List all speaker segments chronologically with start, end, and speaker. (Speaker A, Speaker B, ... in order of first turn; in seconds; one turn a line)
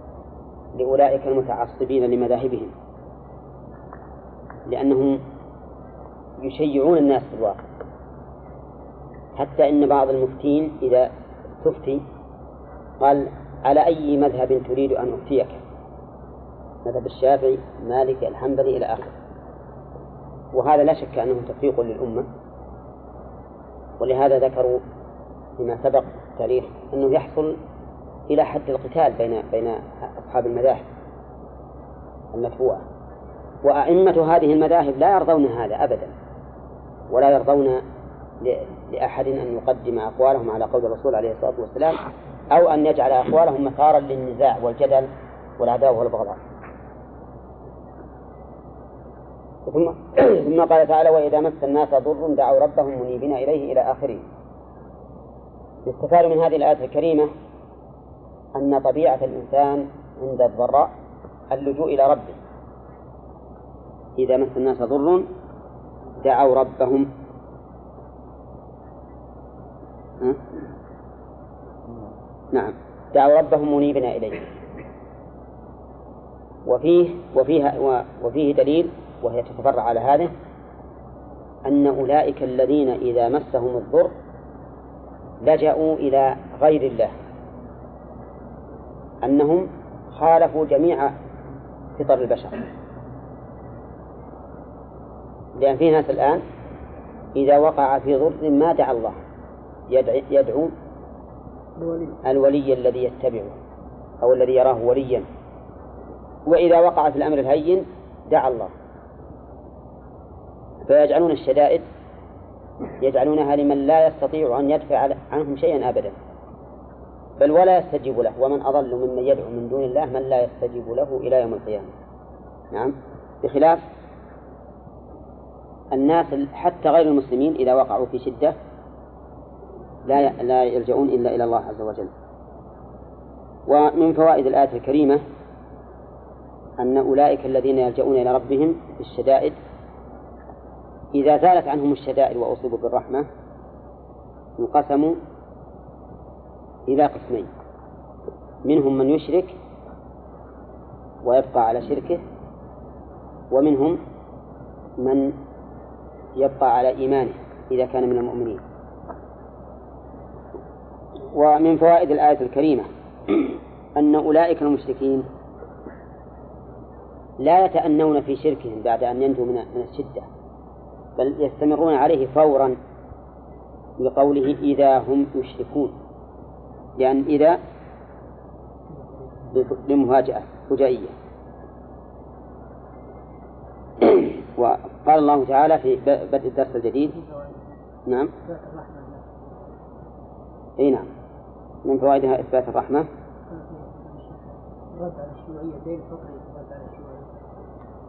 Speaker A: 0.8-2.7
Speaker A: 4.7-5.2
Speaker A: 6.4-7.6
Speaker A: 9.4-12.0
Speaker A: 13.0-15.6
Speaker A: 16.9-19.1
Speaker A: 20.5-22.3
Speaker A: 24.0-24.8
Speaker A: 25.6-27.6
Speaker A: 28.3-30.9
Speaker A: 32.3-32.8
Speaker A: 33.6-36.1
Speaker A: 37.1-37.8
Speaker A: 38.4-42.0
Speaker A: 42.5-46.4
Speaker A: 49.7-54.2
Speaker A: 55.9-57.3
Speaker A: 58.6-60.9
Speaker A: 61.5-62.4
Speaker A: 64.2-65.3
Speaker A: 66.2-67.1
Speaker A: 72.5-74.5
Speaker A: 76.7-80.3
Speaker A: 81.7-84.1
Speaker A: 85.4-87.1
Speaker A: 89.2-91.2
Speaker A: 92.0-92.6
Speaker A: 95.6-96.4
Speaker A: 97.3-99.2
Speaker A: 99.9-100.7
Speaker B: 101.8-102.2
Speaker A: 102.2-103.6
Speaker A: 104.2-105.3
Speaker A: 106.5-108.7
Speaker A: 110.9-111.8
Speaker A: 113.0-116.2
Speaker A: 117.4-121.9
Speaker A: 122.7-123.8
Speaker A: 125.9-128.6
Speaker A: 130.1-132.1
Speaker A: 133.7-135.2
Speaker A: 136.8-139.6
Speaker A: 141.1-143.3
Speaker A: 144.6-145.2
Speaker A: 146.9-147.5
Speaker A: 148.7-149.6
Speaker A: 151.2-152.2
Speaker A: 153.5-154.0
Speaker A: 155.0-155.4
Speaker A: 156.4-158.6
Speaker A: 161.3-162.9
Speaker A: 163.9-165.3
Speaker A: 167.4-170.3
Speaker A: 171.2-172.8
Speaker A: 174.0-175.9
Speaker A: 177.0-177.6
Speaker B: 178.9-179.3
Speaker A: 179.5-181.1
Speaker A: 184.0-187.1
Speaker B: 187.1-187.8
Speaker A: 188.1-188.3
Speaker B: 188.4-189.2
Speaker A: 190.8-191.1
Speaker A: 191.8-193.1
Speaker B: 193.5-197.3